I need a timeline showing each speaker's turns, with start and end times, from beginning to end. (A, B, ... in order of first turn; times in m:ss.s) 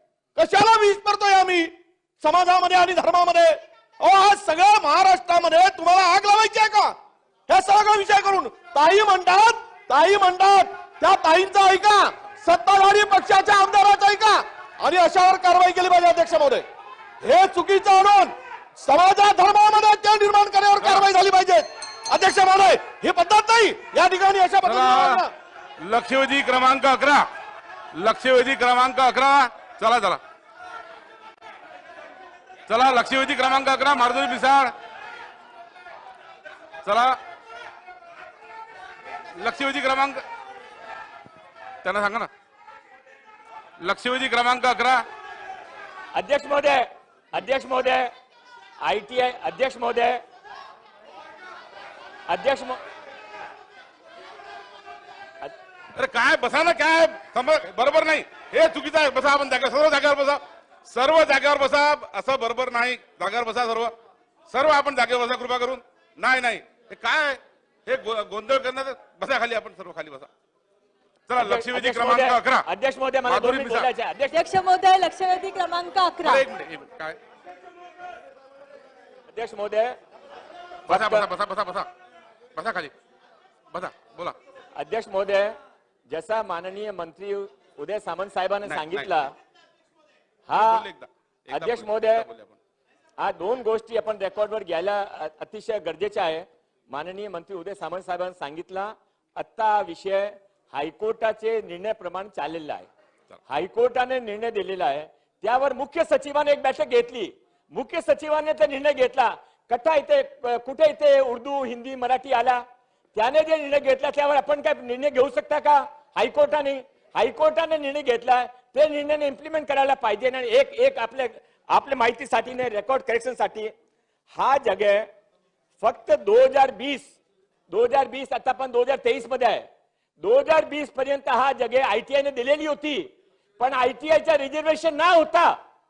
0:00.4-0:07.0 A
0:07.5-0:16.6 A
0:17.2-0:25.3 A
0:20.8-0:21.1 B
0:24.6-0:25.3 B
0:25.8-0:27.2 B
0:27.9-0:30.2 B
0:32.7-0:34.7 B
0:36.8-0:37.2 B
0:39.4-0:40.2 B
0:41.8-0:42.3 B
0:43.8-0:45.1 B
0:46.1-0:48.1 C
0:48.8-0:50.2 C
0:52.3-0:52.8 C
0:55.9-1:04.0 B
1:04.5-1:10.3 B
1:11.3-1:13.9 B
1:11.4-1:14.3 C
1:14.3-1:16.4 D
1:16.2-1:17.2 B
1:19.3-1:19.9 C
1:20.9-1:21.9 B
1:20.9-1:21.3 C
1:22.5-1:22.9 B
1:23.7-1:24.4 B
1:24.8-1:25.5 C
1:26.1-1:29.2 C
1:28.6-1:29.2 B
1:30.5-1:30.7 C
1:30.5-1:32.6 B
1:31.5-1:32.3 C
1:33.2-1:42.9 C
1:43.5-1:52.6 C
1:53.1-2:03.7 C
2:04.3-2:05.0 C
2:05.8-2:07.1 C
2:07.7-2:09.7 C
2:10.2-2:15.5 C